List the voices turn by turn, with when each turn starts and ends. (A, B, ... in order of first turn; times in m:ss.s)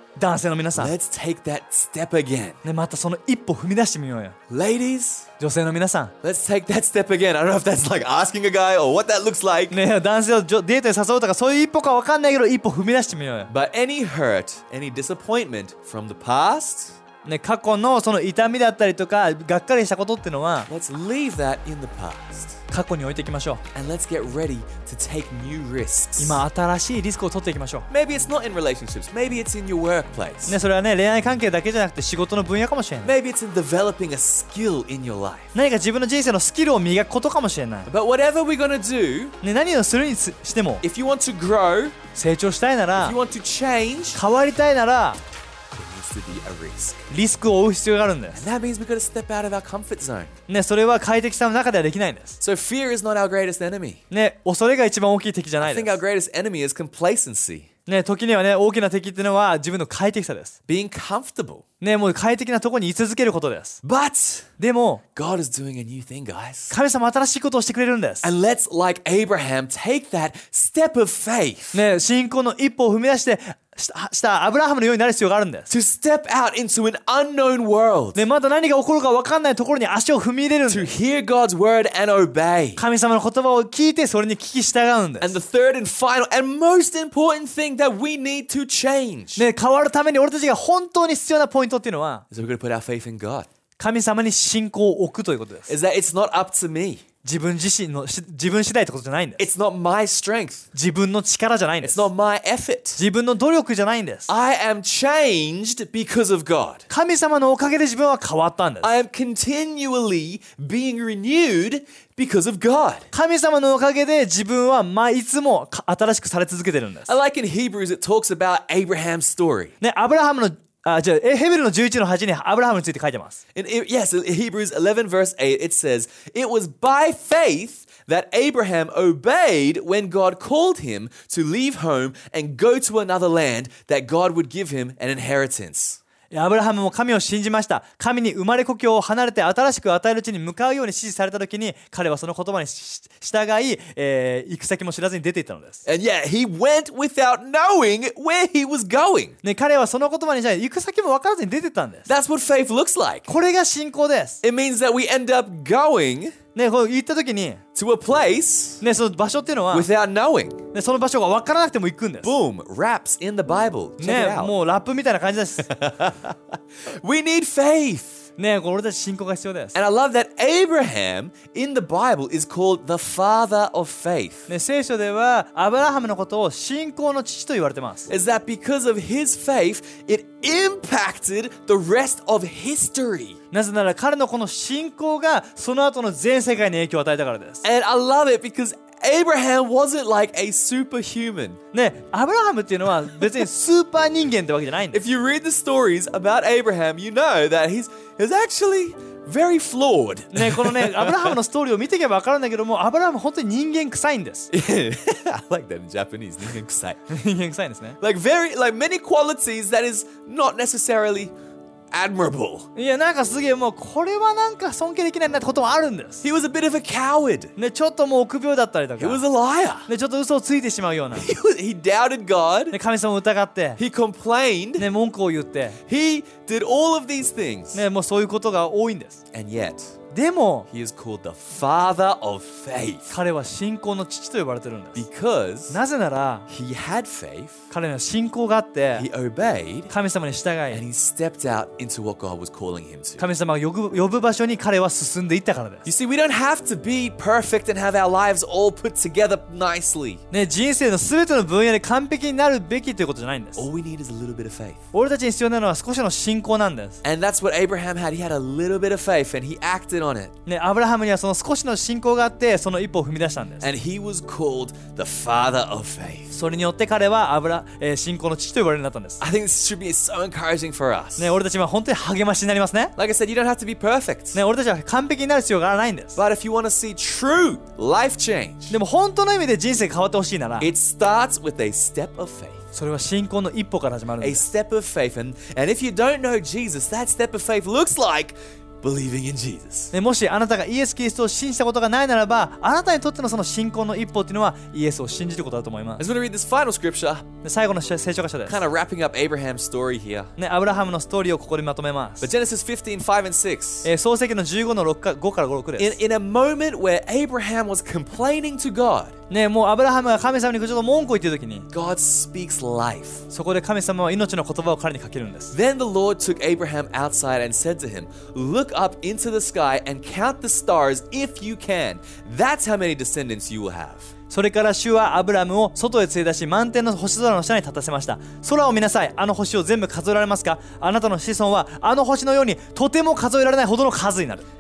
0:00.2-0:00.9 A
0:00.8-0:02.6 B
0:02.6-0:04.4 A
0:04.5-0:05.3 B
0:05.4-0:06.1 A
0:06.2-0:09.8 B
0:09.7-0:13.5 A
0:13.5-0:17.0 B
0:17.2-0:20.7 A
0:20.7-0:22.6 B
0:22.7-0:23.6 A
0:23.7-0:26.4 B
0:26.2-0:27.9 A
0:27.9-0:30.6 B
0:30.5-0:33.1 A
0:33.0-0:35.5 B
0:35.6-0:37.9 A
0:37.9-0:39.4 B
0:39.4-0:40.8 A
0:40.8-0:42.0 B
0:42.2-0:43.2 A
0:43.0-0:44.2 B
0:44.1-0:45.2 A
0:45.7-0:47.1 B
0:47.1-0:48.4 A
0:48.3-0:50.3 B
0:50.5-0:52.4 A
0:52.4-0:54.0 B
0:54.1-0:56.0 A
0:55.6-0:57.7 B
0:57.9-1:00.6 A
1:00.7-1:01.6 B
1:01.8-1:03.8 A
1:03.8-1:04.5 B
1:04.6-1:05.0 A
1:05.2-1:06.8 B
1:06.7-1:08.3 A
1:08.2-1:11.8 B
1:11.7-1:15.7 A
1:15.7-1:18.2 B
1:18.2-1:20.9 A
1:20.7-1:22.8 B
1:22.8-1:25.4 A
1:25.2-1:29.4 B
1:29.4-1:32.2 A
1:32.3-1:33.5 B
1:33.8-1:35.7 A
1:35.7-1:37.0 B
1:37.2-1:39.4 A
1:39.4-1:40.7 B
1:40.8-1:42.1 A
1:41.8-1:43.0 B
1:43.0-1:44.3 A
1:44.3-1:46.8 B
1:46.9-1:48.9 A
1:48.8-1:53.1 B
1:53.1-1:57.1 A
1:57.1-1:59.8 B
1:59.8-2:03.4 A
2:03.6-2:16.0 B
2:16.3-2:25.8 A
2:25.9-2:29.4 B
2:29.4-2:32.1 A
2:32.1-2:33.3 B
2:33.3-2:34.4 A
2:34.4-2:36.4 B
2:36.6-2:37.6 A
2:37.8-2:38.8 B
2:38.8-2:39.9 A
2:39.7-2:40.6 B
2:40.7-2:42.3 A
2:42.2-2:44.6 B
2:44.0-2:45.7 A
2:45.7-2:48.3 B
2:48.4-2:49.8 A
2:49.8-2:54.5 B
2:54.5-2:58.1 A
2:58.1-3:03.4 B
3:03.5-3:07.6 A
3:07.6-3:11.6 B
3:11.7-3:15.0 A
3:14.9-3:21.4 B
3:20.3-3:24.5 A
3:24.5-3:27.0 B
3:27.1-3:28.0 A
3:28.0-3:31.3 B
3:31.9-3:32.7 B
3:32.8-3:36.2 A
3:36.2-3:37.5 B
3:37.6-3:39.2 A
3:39.0-3:39.9 B
3:39.9-3:41.3 A
3:41.2-3:42.8 B
3:42.7-3:43.8 A
3:43.8-3:44.9 B
3:44.8-3:45.8 A
3:45.9-3:47.8 B
3:47.7-3:49.2 A
3:49.3-3:50.0 B
3:50.1-3:50.7 A
3:50.7-3:53.1 B
3:53.1-3:55.0 A
3:55.0-3:55.8 B
3:55.7-3:56.5 A
3:56.5-3:57.6 B
3:57.7-3:59.1 A
3:59.0-3:59.9 B
3:59.9-4:00.8 A
4:00.7-4:03.2 B
4:03.2-4:05.9 A
4:05.9-4:10.2 B
4:10.3-4:13.7 A
4:13.6-4:14.8 B
4:14.9-4:17.0 A
4:17.0-4:20.3 B
4:20.5-4:23.7 A
4:23.6-4:26.3 B
4:26.3-4:29.2 A
4:29.2-4:31.4 B
4:31.2-4:32.9 A
4:33.0-4:34.4 B
4:34.3-4:36.2 A
4:36.2-4:38.8 B
4:38.7-4:40.7 A
4:40.6-4:42.6 B
4:42.7-4:44.4 A
4:44.2-4:49.9 B
4:49.9-4:56.0 A
4:56.0-4:57.3 B
4:57.4-4:58.6 A
4:58.5-5:00.3 B
5:00.4-5:02.3 A
5:02.2-5:03.9 B
5:03.8-5:06.0 A
5:05.8-5:09.2 B
5:09.3-5:11.7 A
5:11.7-5:13.2 B
5:13.3-5:15.6 A
5:15.5-5:24.1 B
5:24.3-5:34.4 A